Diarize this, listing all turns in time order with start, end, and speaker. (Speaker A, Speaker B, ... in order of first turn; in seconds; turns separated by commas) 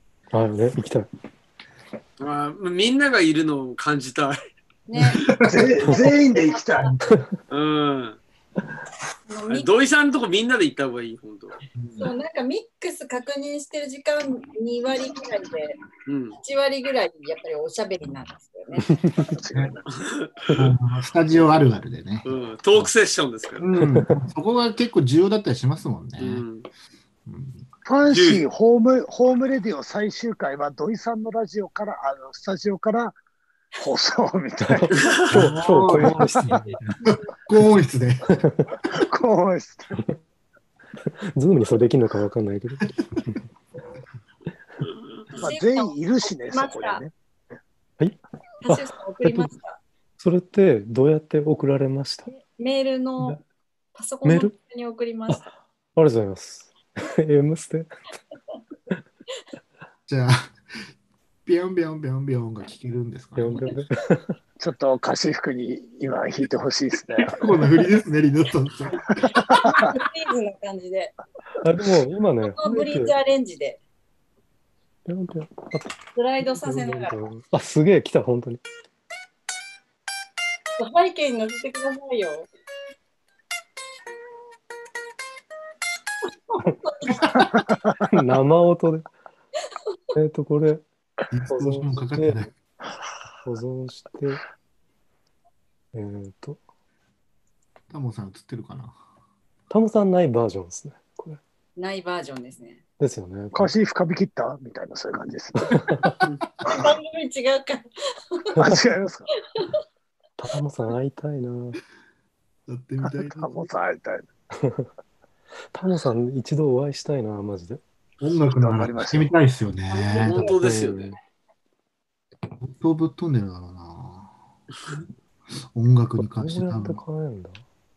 Speaker A: 0.3-1.1, Speaker B: 2.2-4.4, Speaker C: 4.9-5.3, Speaker D: 5.0-5.7, Speaker E: 5.4-7.0, Speaker C: 5.9-6.6, Speaker A: 7.0-7.3, Speaker B: 7.5-8.2, Speaker C: 9.3-9.7, Speaker B: 9.5-11.6, Speaker D: 11.8-12.1, Speaker C: 12.0-15.8, Speaker B: 16.1-16.4, Speaker C: 16.4-19.0, Speaker A: 18.8-19.2, Speaker E: 19.2-19.9, Speaker B: 19.9-20.3, Speaker D: 20.5-22.9, Speaker B: 22.2-23.6, Speaker D: 23.6-26.4, Speaker A: 23.8-24.1, Speaker B: 26.2-26.7, Speaker D: 27.2-27.7, Speaker E: 27.8-33.2, Speaker B: 28.1-28.4, Speaker E: 33.8-36.3, Speaker A: 34.6-36.7, Speaker B: 35.0-35.2, Speaker D: 35.3-38.4, Speaker C: 36.5-36.8, Speaker A: 38.3-38.7, Speaker E: 38.9-40.0, Speaker A: 41.1-43.4, Speaker E: 45.4-47.1, Speaker C: 45.4-47.0, Speaker A: 48.0-49.5, Speaker C: 48.6-49.8, Speaker A: 50.2-52.3, Speaker C: 52.3-53.4, Speaker C: 53.9-55.5, Speaker A: 54.2-54.5, Speaker A: 55.9-57.9, Speaker D: 60.1-60.8, Speaker D: 61.4-63.7, Speaker A: 63.4-64.3, Speaker E: 64.6-67.5, Speaker D: 67.3-69.3, Speaker E: 69.3-69.9, Speaker C: 69.5-71.1, Speaker A: 71.6-73.1, Speaker C: 72.5-73.8, Speaker A: 75.0-78.6, Speaker C: 76.1-77.2, Speaker C: 80.8-82.5, Speaker C: 86.5-87.4, Speaker E: 87.3-87.8, Speaker A: 88.1-89.1, Speaker A: 90.1-90.8, Speaker D: 91.3-92.5, Speaker A: 91.5-92.5, Speaker A: 93.4-94.4, Speaker A: 95.9-96.6, Speaker D: 97.9-99.0, Speaker A: 99.7-101.4, Speaker C: 101.8-102.8, Speaker A: 103.0-103.7, Speaker E: 103.5-105.8, Speaker A: 105.6-106.2, Speaker C: 106.6-108.5, Speaker A: 108.6-108.8, Speaker E: 108.6-109.3, Speaker A: 110.4-111.8, Speaker D: 112.7-113.7, Speaker E: 113.2-114.3, Speaker A: 114.5-114.9, Speaker A: 115.7-117.8, Speaker D: 118.2-120.5, Speaker E: 118.4-119.3, Speaker C: 119.9-120.4, Speaker B: 120.2-121.1, Speaker A: 120.4-121.2, Speaker D: 122.6-124.3, Speaker D: 125.7-127.0, Speaker A: 126.2-127.6